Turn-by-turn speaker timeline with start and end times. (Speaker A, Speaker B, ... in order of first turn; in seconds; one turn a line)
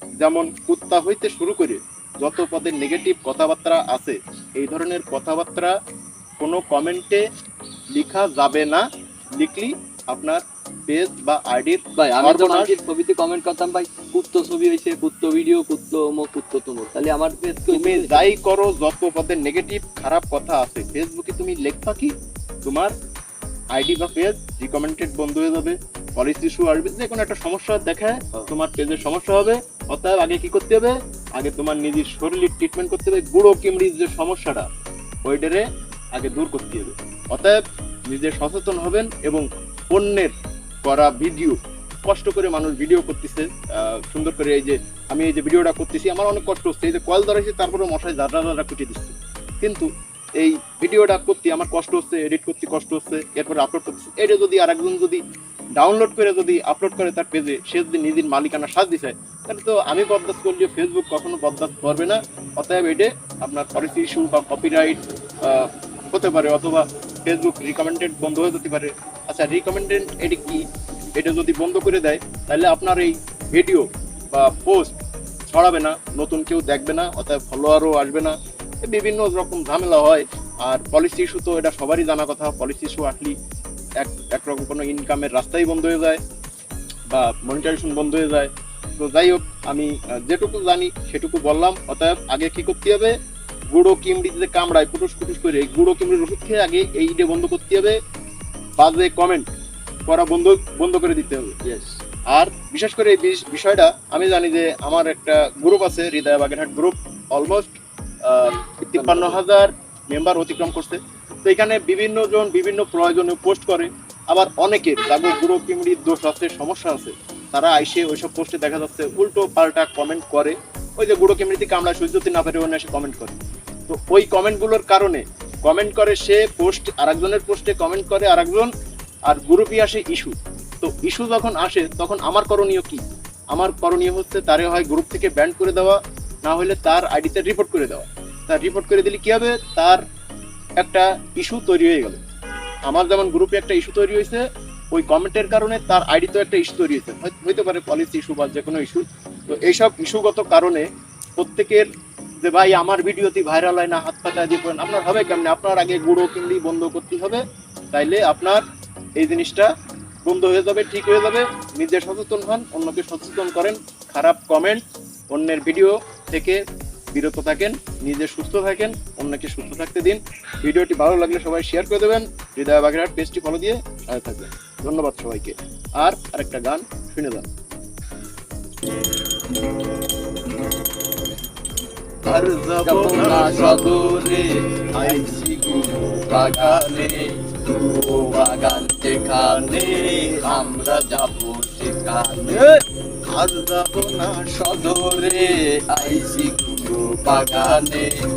Speaker A: 0.2-5.7
Speaker A: 6.4-7.2
Speaker A: 7.9-8.8
Speaker A: 9.4-12.7
Speaker B: 12.0-18.3
Speaker A: 17.7-22.9
Speaker A: 23.7-34.7
Speaker A: 35.2-55.2
Speaker A: 55.8-70.6
Speaker A: 71.2-83.3
Speaker A: 84.0-86.2
Speaker A: 87.1-93.1
Speaker A: 93.7-98.0
Speaker A: 98.8-99.5
Speaker A: 100.1-101.6
Speaker A: 102.3-107.7
Speaker A: 108.2-123.3
Speaker B: 108.9-109.4
Speaker A: 123.9-128.7
Speaker A: 129.3-140.0
Speaker A: 140.8-142.2
Speaker A: 142.9-151.9
Speaker A: 152.4-158.6
Speaker A: 159.2-159.7
Speaker A: 160.2-166.6
Speaker A: 167.1-177.4
Speaker A: 182.2-184.4
Speaker B: 182.8-184.4
Speaker A: 184.9-187.1
Speaker B: 185.0-192.7
Speaker A: 187.7-188.4
Speaker A: 189.3-191.0
Speaker A: 193.2-195.4
Speaker B: 194.5-198.1